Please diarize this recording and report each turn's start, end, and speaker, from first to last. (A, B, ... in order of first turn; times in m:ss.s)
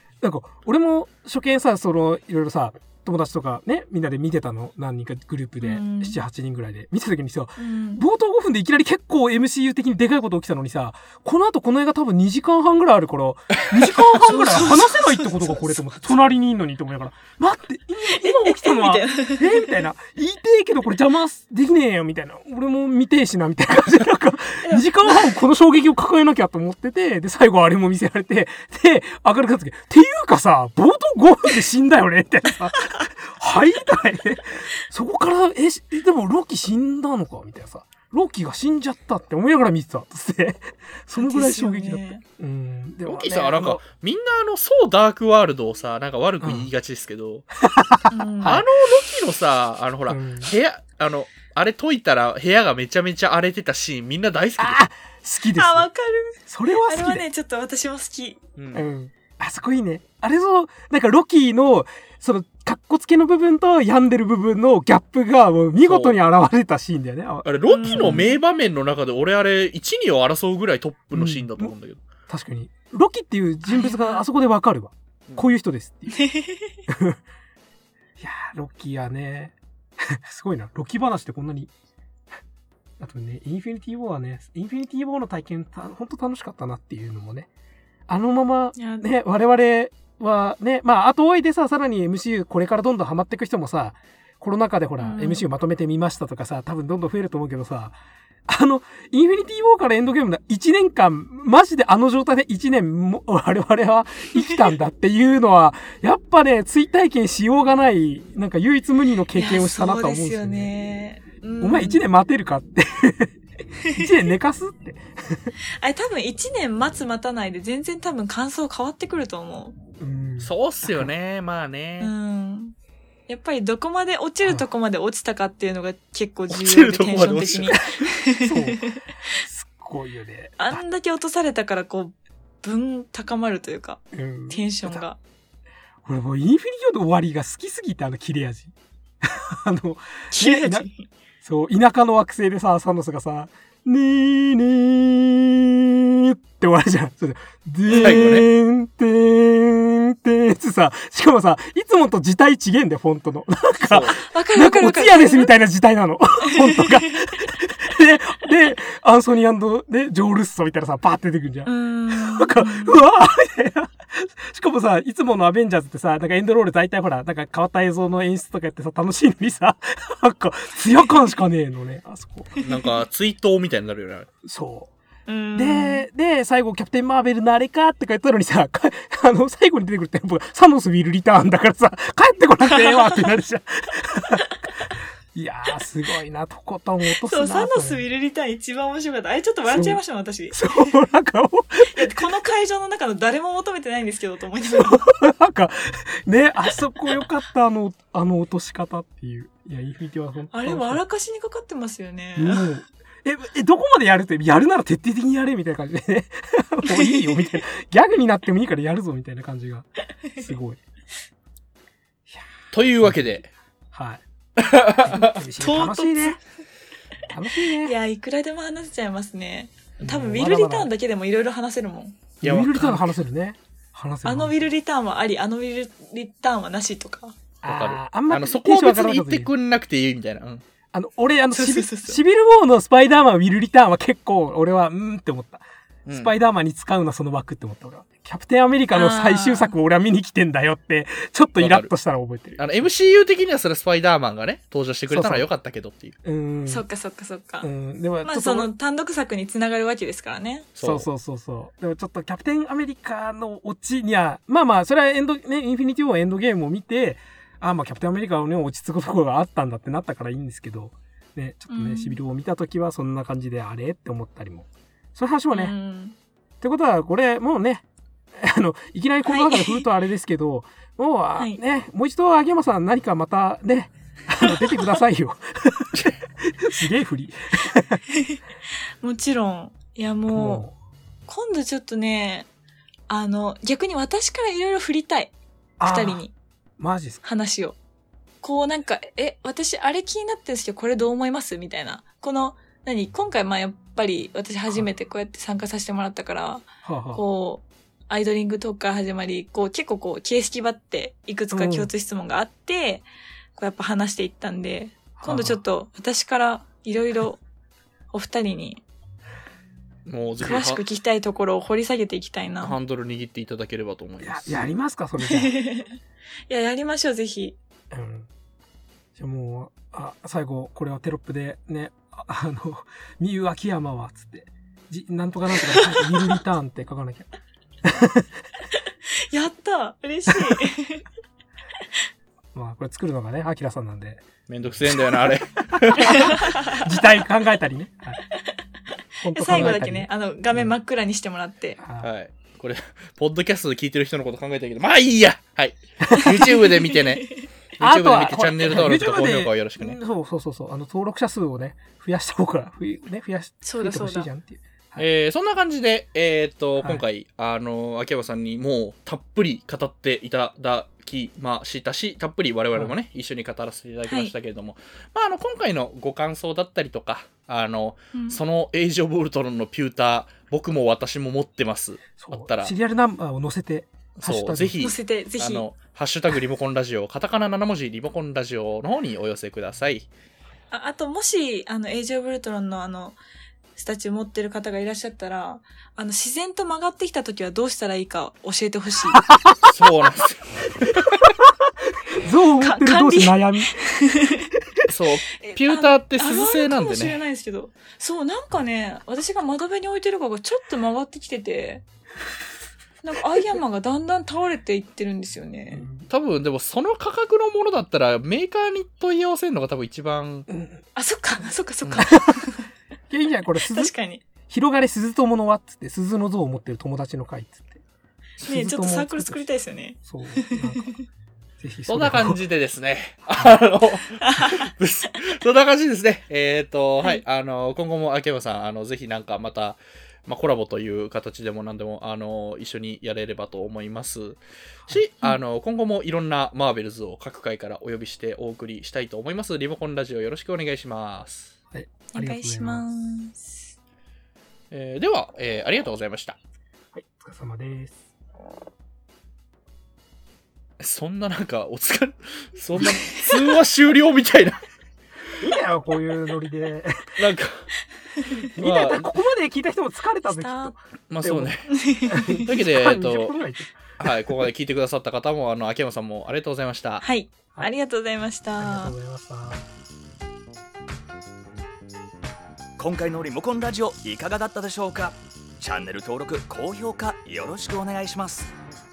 0:00.2-0:43.8 A
0:05.6-0:06.2 B
0:07.6-0:08.0 B
0:14.2-0:15.7 B
0:18.2-0:19.7 B
0:41.2-0:42.2 B
0:43.1-0:47.5 C
0:46.4-0:46.7 A
0:47.6-0:48.7 A
0:48.1-0:48.6 B
0:48.4-0:54.8 C
0:50.1-0:50.5 A
0:54.6-0:55.9 A
0:55.6-0:58.4 B
0:56.5-0:57.2 A
0:58.6-0:58.9 C
0:58.7-1:08.3 A
1:05.8-1:06.2 C
1:07.4-1:12.0 C
1:07.7-1:08.4 B
1:11.2-1:11.7 A
1:12.3-1:16.2 A
1:13.7-1:14.2 B
1:16.1-1:16.8 B
1:16.9-1:17.2 A
1:18.2-1:21.7 A
1:23.0-1:27.5 A
1:28.1-1:38.0 A
1:28.8-1:29.0 B
1:35.0-1:35.4 B
1:38.5-1:50.7 A
1:49.4-1:52.0 B
1:51.6-1:53.4 A
1:53.8-1:54.2 B
1:53.9-1:55.5 A
1:55.8-1:59.8 B
2:00.0-2:01.1 A
2:00.4-2:02.1 C
2:02.0-2:02.8 B
2:03.3-2:09.0 B
2:06.5-2:08.1 C
2:08.4-2:10.8 A
2:10.6-2:15.2 B
2:14.1-2:15.0 A
2:16.0-2:20.9 A
2:20.3-2:21.1 B
2:21.4-2:52.5 A
2:27.9-2:28.5 C
2:33.8-2:34.2 C
2:34.3-2:35.5 B
2:36.5-2:37.2 B
2:41.7-2:43.0 B
2:52.6-2:52.9 B
2:52.6-2:54.3 C
2:54.4-2:54.9 A
2:55.3-2:56.0 B
2:55.6-3:04.7 A
3:05.3-3:08.0 A
3:07.1-3:10.9 B
3:09.7-3:10.0 A
3:10.5-3:12.3 A
3:11.8-3:15.1 B
3:14.7-3:21.0 A
3:20.5-3:22.7 B
3:22.4-3:30.8 A
3:32.7-3:33.5 C
3:33.0-3:33.4 A
3:33.9-3:34.2 A
3:34.6-3:35.4 C
3:35.0-3:36.4 A
3:35.6-3:36.4 B
3:37.3-3:37.9 A
3:37.8-3:42.2 B
3:40.0-3:40.9 A
3:42.4-3:44.6 A
3:42.4-3:43.1 C
3:44.2-3:47.4 B
3:47.6-3:49.5 A
3:47.6-3:50.6 C
3:50.9-4:02.9 A
3:51.5-3:52.2 B
3:56.1-3:56.3 C
3:58.9-3:59.8 B
4:01.6-4:01.9 C
4:02.6-4:06.2 C
4:05.1-4:05.5 A
4:06.2-4:06.8 A
4:06.7-4:07.7 B
4:07.6-4:08.7 A
4:08.2-4:10.7 B
4:10.8-4:11.1 C
4:10.8-4:25.8 A
4:21.7-4:22.2 B
4:25.5-4:26.2 B
4:26.6-4:38.0 A
4:29.3-4:29.9 B
4:34.4-4:34.7 B
4:38.1-4:38.4 B
4:39.0-4:40.7 B
4:40.3-4:40.8 A
4:41.3-4:42.5 B
4:43.1-4:46.3 B
4:45.8-4:46.2 A
4:46.8-4:47.2 A
4:47.2-4:47.8 B
4:48.4-5:07.4 B
4:56.8-4:57.2 A
5:01.5-5:01.9 A
5:05.2-5:05.6 A
5:08.1-5:08.8 B
5:10.1-5:10.8 C
5:10.4-5:12.8 B
5:12.6-5:14.6 C
5:14.2-5:15.6 A
5:15.2-5:16.0 B
5:16.5-5:17.6 B
5:17.9-5:18.3 A
5:19.2-5:27.3 A
5:25.6-5:26.2 B
5:27.8-5:28.3 A
5:29.2-5:31.0 B
5:32.5-5:34.2 A
5:34.5-5:36.4 C
5:35.8-5:38.2 A
5:36.1-5:36.8 B
5:39.2-5:40.8 A
5:39.3-5:41.8 B
5:39.5-5:39.8 C
5:41.8-5:42.1 A
5:42.0-5:50.0 C
5:46.1-5:46.5 A
5:47.8-5:55.1 A
5:53.6-5:54.3 B
5:55.0-6:12.7 C
6:04.1-6:04.3 B
6:08.1-6:08.4 B
6:12.2-6:14.8 A
6:14.2-6:20.1 C
6:14.8-6:15.7 B
6:20.7-6:23.2 B
6:23.8-6:29.3 B
6:29.6-6:31.3 C
6:31.5-6:33.8 A
6:32.6-6:34.5 B
6:34.9-6:37.2 C
6:35.4-6:41.8 B
6:43.0-6:45.9 B
6:45.7-6:46.1 A
6:46.1-6:50.5 C
6:50.5-6:50.8 A
6:51.0-6:52.6 B
6:52.0-6:52.4 A
6:53.1-6:53.9 A
6:53.7-6:54.2 B
6:54.5-6:57.8 A
6:58.4-6:59.4 A
6:58.4-7:01.0 B
7:00.0-7:00.9 A
7:01.6-7:02.4 A
7:01.9-7:21.5 C
7:04.2-7:04.6 B
7:21.7-7:22.9 A
7:22.1-7:23.7 B
7:24.7-7:26.4 C
7:26.9-7:28.0 A
7:30.8-7:34.6 C
7:35.4-7:37.1 A
7:37.2-7:37.7 C
7:38.4-7:39.1 C
7:38.6-7:43.8 A
7:40.2-7:40.7 B
7:41.1-7:41.7 C
7:41.7-7:42.5 B
7:42.4-7:43.4 C
7:44.0-7:47.0 C
7:47.0-7:48.9 B
7:48.6-7:49.6 A
7:52.8-7:58.5 D